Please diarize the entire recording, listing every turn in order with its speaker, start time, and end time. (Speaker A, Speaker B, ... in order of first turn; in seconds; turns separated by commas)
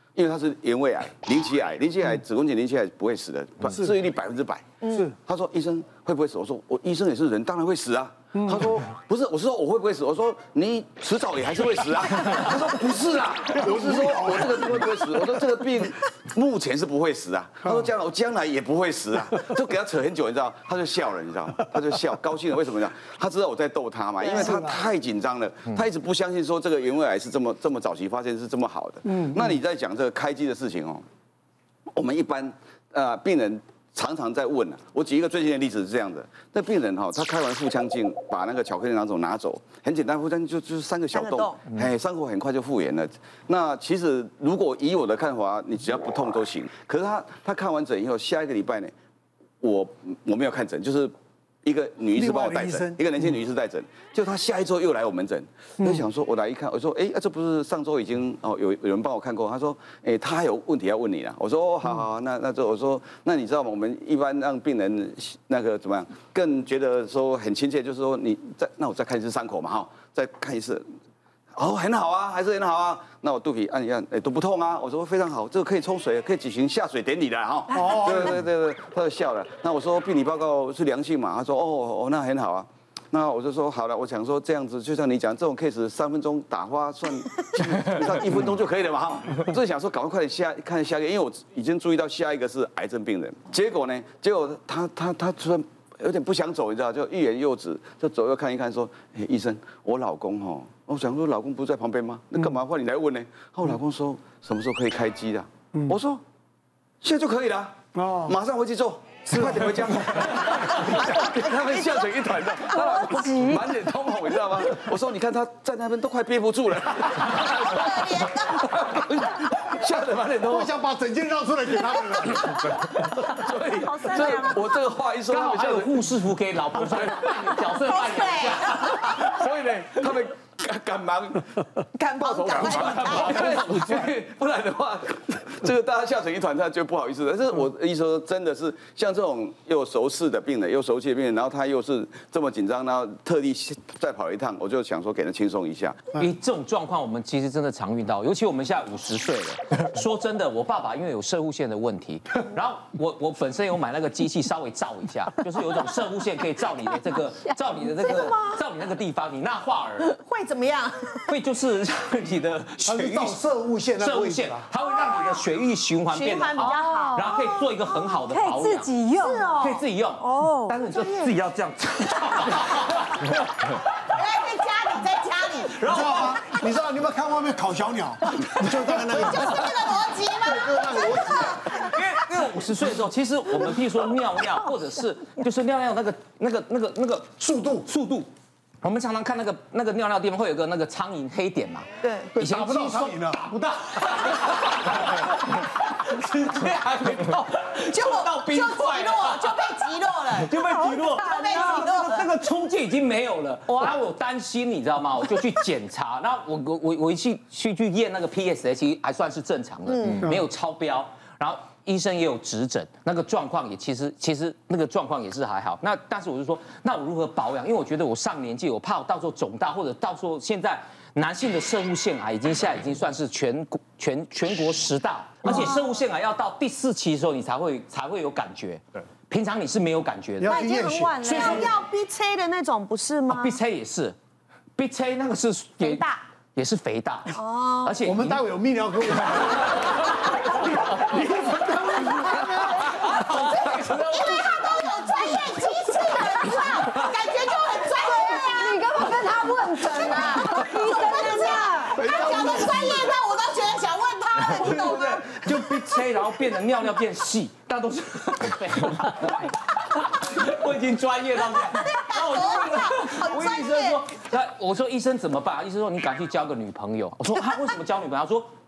Speaker A: 0.1-31.1, Speaker B: 4.8-5.1, Speaker C: 8.3-8.7, Speaker C: 13.5-15.0, Speaker C: 24.2-24.8, Speaker A: 31.9-48.9, Speaker B: 41.1-41.7, Speaker A: 49.6-70.9, Speaker C: 52.1-53.0, Speaker A: 71.5-106.2, Speaker C: 77.7-78.4, Speaker A: 107.0-120.7, Speaker C: 108.0-108.4, Speaker C: 109.3-110.3, Speaker B: 111.3-112.4, Speaker D: 112.6-114.0, Speaker B: 117.6-118.8, Speaker C: 120.5-122.8, Speaker A: 122.2-126.0, Speaker D: 123.5-124.6, Speaker E: 125.3-129.2, Speaker A: 126.9-127.5, Speaker B: 127.8-129.2, Speaker A: 129.0-131.7, Speaker B: 131.9-134.0, Speaker A: 132.2-146.1, Speaker E: 146.1-160.2, Speaker D: 157.6-158.5, Speaker B: 160.1-161.3, Speaker E: 161.3-163.4, Speaker C: 162.8-164.7, Speaker E: 164.0-168.9, Speaker B: 166.1-167.3, Speaker D: 166.6-169.5, Speaker B: 169.1-169.8, Speaker E: 169.6-173.8, Speaker D: 170.2-170.7, Speaker B: 170.4-171.3, Speaker B: 174.1-175.8, Speaker E: 175.6-176.4, Speaker C: 175.8-179.7, Speaker B: 178.8-182.0, Speaker C: 180.4-181.7, Speaker E: 181.7-188.3, Speaker C: 187.4-187.9, Speaker E: 188.8-199.6, Speaker B: 192.0-192.4, Speaker C: 192.4-193.9, Speaker B: 197.9-202.3, Speaker E: 200.4-230.6, Speaker B: 203.7-203.9, Speaker B: 209.9-210.3, Speaker B: 225.5-225.8, Speaker C: 230.4-231.4, Speaker D: 230.4-231.7, Speaker E: 231.2-231.6, Speaker B: 231.2-233.6, Speaker E: 233.3-234.2, Speaker E: 234.8-238.4, Speaker B: 235.8-236.2, Speaker B: 237.5-237.9, Speaker C: 238.0-244.0, Speaker E: 242.9-244.5, Speaker B: 243.9-249.0, Speaker D: 248.0-252.1, Speaker B: 249.8-255.3, Speaker C: 252.0-252.9, Speaker E: 254.4-268.5, Speaker B: 261.7-264.1